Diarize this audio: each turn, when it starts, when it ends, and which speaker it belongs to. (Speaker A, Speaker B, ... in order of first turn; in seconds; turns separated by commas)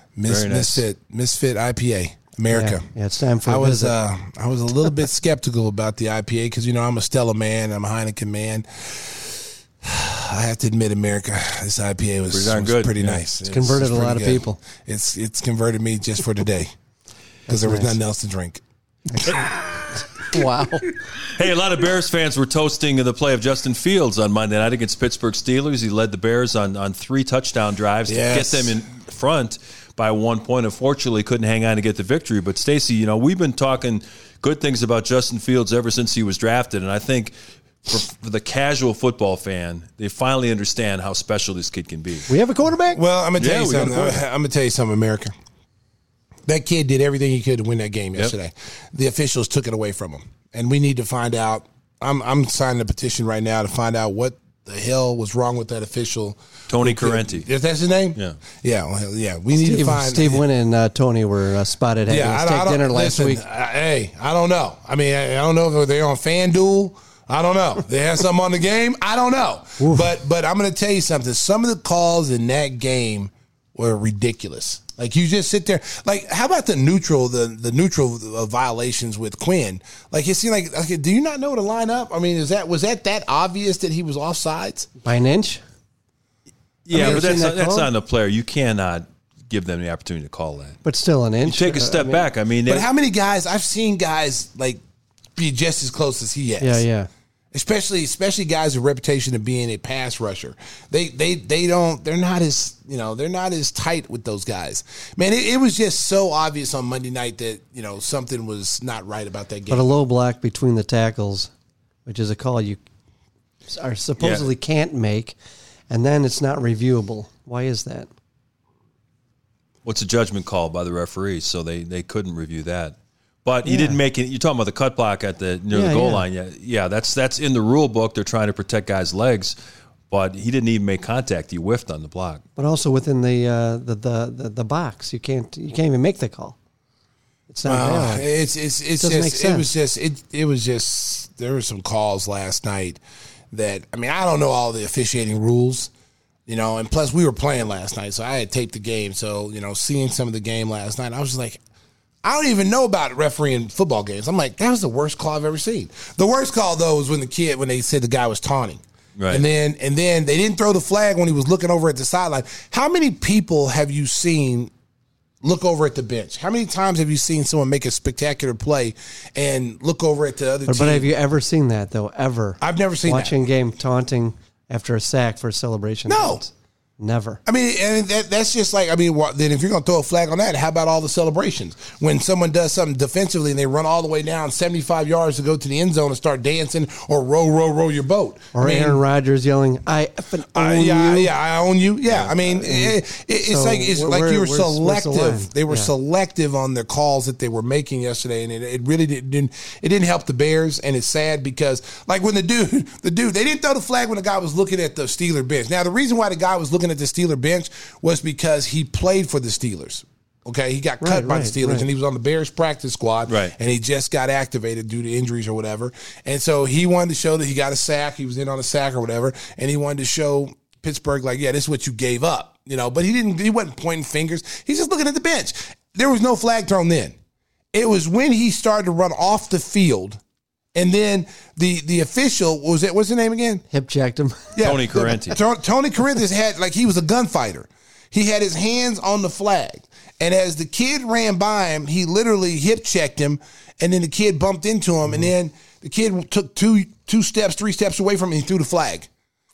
Speaker A: 0.1-2.9, Speaker B: 0.3-0.8, Speaker C: 2.5-4.0, Speaker A: 3.4-16.7, Speaker B: 12.3-13.2, Speaker C: 13.4-14.6, Speaker C: 17.5-18.0, Speaker A: 17.5-18.6, Speaker C: 19.1-19.4, Speaker A: 19.2-20.0, Speaker C: 20.2-20.9, Speaker B: 21.3-37.3, Speaker A: 28.1-28.7, Speaker B: 37.8-42.3, Speaker C: 42.3-43.0, Speaker A: 42.9-45.3, Speaker B: 43.4-44.2, Speaker A: 46.5-60.4, Speaker B: 56.7-57.5, Speaker C: 59.5-63.4, Speaker A: 62.1-84.9, Speaker C: 69.8-70.1, Speaker C: 85.0-85.6, Speaker B: 86.8-90.8, Speaker C: 86.9-87.9, Speaker A: 86.9-87.4, Speaker C: 90.8-92.2, Speaker B: 91.4-92.8, Speaker A: 92.7-94.8, Speaker A: 95.3-96.8, Speaker C: 96.6-97.1, Speaker A: 97.5-109.9, Speaker C: 109.7-111.5, Speaker C: 112.0-112.8, Speaker C: 113.7-115.3, Speaker B: 114.2-114.5, Speaker C: 115.9-118.1, Speaker B: 119.8-129.6, Speaker C: 123.6-124.0, Speaker C: 125.7-126.2, Speaker B: 130.1-132.4, Speaker C: 132.6-136.6, Speaker C: 137.5-138.3, Speaker A: 137.7-143.0, Speaker C: 139.0-139.7, Speaker A: 143.5-145.9, Speaker A: 146.5-151.6, Speaker A: 152.2-164.7, Speaker B: 159.2-159.4, Speaker A: 165.4-171.1, Speaker C: 170.7-177.4, Speaker A: 172.6-173.4, Speaker A: 176.1-176.4, Speaker A: 177.4-189.0, Speaker C: 188.5-191.3, Speaker A: 190.5-227.2, Speaker C: 192.3-195.9, Speaker C: 211.0-211.8, Speaker B: 213.3-213.5, Speaker A: 227.7-230.2, Speaker A: 230.7-233.6, Speaker C: 233.7-234.6, Speaker A: 234.5-249.1, Speaker B: 234.6-235.4